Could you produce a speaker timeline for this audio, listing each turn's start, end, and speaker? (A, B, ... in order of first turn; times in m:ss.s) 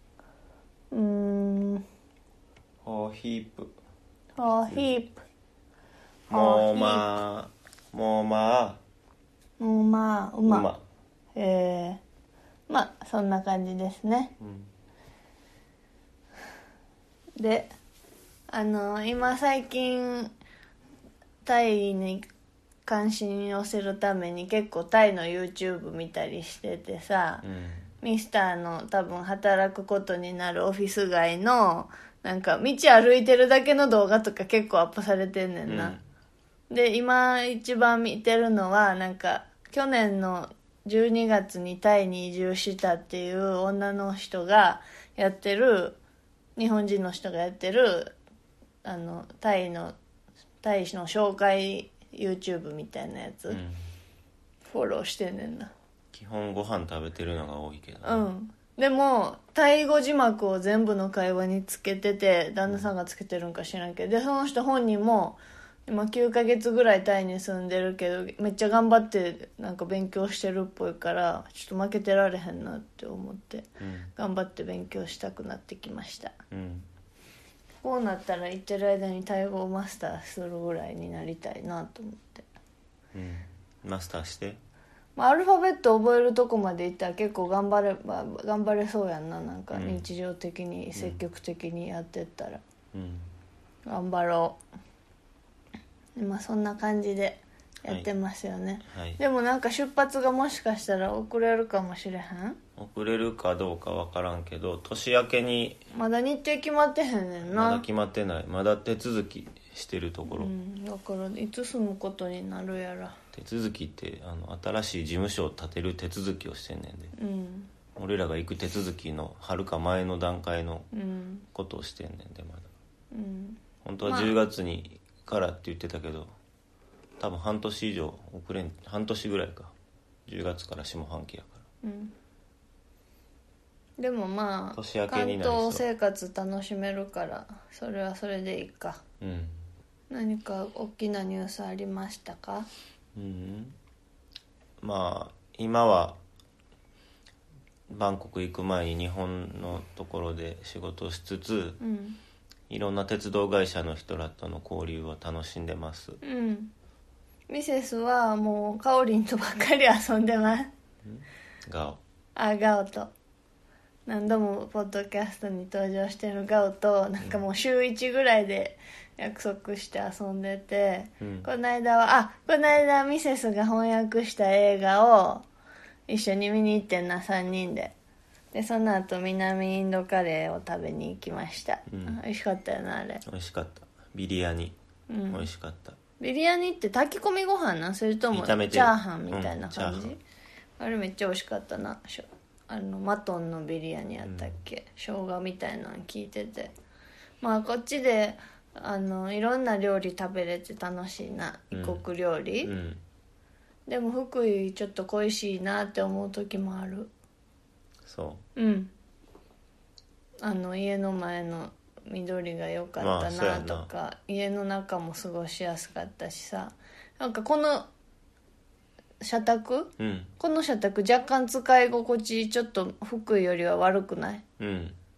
0:00.9-0:01.8 A
0:02.8-0:03.7 B
0:04.4-0:05.2 A
0:06.3-0:08.8 B
0:06.3-0:07.1 A
0:09.6-0:10.7 A
0:10.5-0:10.8 B
0:11.4-0:12.0 A
0:12.7-0:14.4 A
0:14.4-0:14.7 B
0:17.4-0:17.7 A
0:18.5-0:20.3 A
0:21.4-0:22.3 A
0:22.9-0:27.4 A
0:27.4-0:27.8 B
0:28.0-0:36.0 A
0:35.7-0:36.0 B
0:36.7-0:46.0 A
0:46.6-0:48.2 A
0:48.8-0:50.0 A
0:50.6-0:53.6 A
0:53.5-0:53.8 B
0:54.7-0:55.7 A
0:56.1-0:58.3 B
0:58.0-1:16.3 A
1:13.8-1:14.1 B
1:16.5-1:16.9 B
1:17.8-1:22.4 A
1:23.1-1:24.6 B
1:25.2-1:32.6 A
1:29.7-1:30.1 B
1:31.0-1:31.2 B
1:32.9-1:33.3 B
1:33.9-1:34.6 A
1:36.2-1:42.6 A
1:38.9-1:39.2 B
1:42.8-1:45.8 B
1:45.9-1:47.8 A
1:47.4-1:50.5 B
1:50.3-1:53.2 A
1:53.3-1:57.1 B
1:57.2-1:57.7 A
1:58.0-2:00.9 B
2:00.9-2:01.5 A
2:01.5-2:02.7 B
2:03.1-2:04.4 A
2:03.8-2:06.3 B
2:07.2-2:09.7 B
2:10.3-2:11.6 B
2:11.8-2:12.1 A
2:14.0-2:19.0 A
2:14.8-2:15.8 B
2:19.2-2:19.6 B
2:20.1-2:22.7 A
2:23.2-2:23.8 B
2:24.8-2:26.2 B
2:27.9-2:31.8 B
2:31.8-2:32.2 A
2:32.7-2:36.2 B
2:36.2-2:36.7 A
2:37.5-2:40.7 A
2:41.1-2:42.0 B
2:42.4-2:43.1 A
2:44.1-2:55.4 A
2:51.2-2:51.5 B
2:56.1-2:57.9 A
2:58.5-3:03.2 A
3:01.9-3:02.2 B
3:03.2-3:04.8 B
3:05.1-3:05.5 A
3:05.3-3:06.0 B
3:06.2-3:10.2 A
3:08.3-3:10.1 B
3:10.8-3:16.7 A
3:14.2-3:14.5 B
3:17.4-3:22.7 A
3:21.7-3:22.0 B
3:22.6-3:23.0 B
3:23.9-3:27.1 A
3:28.1-3:28.4 B
3:28.6-3:28.9 A
3:30.4-3:37.9 A
3:33.0-3:33.9 B
3:39.2-3:44.4 A
3:40.0-3:40.3 B
3:44.6-3:45.0 B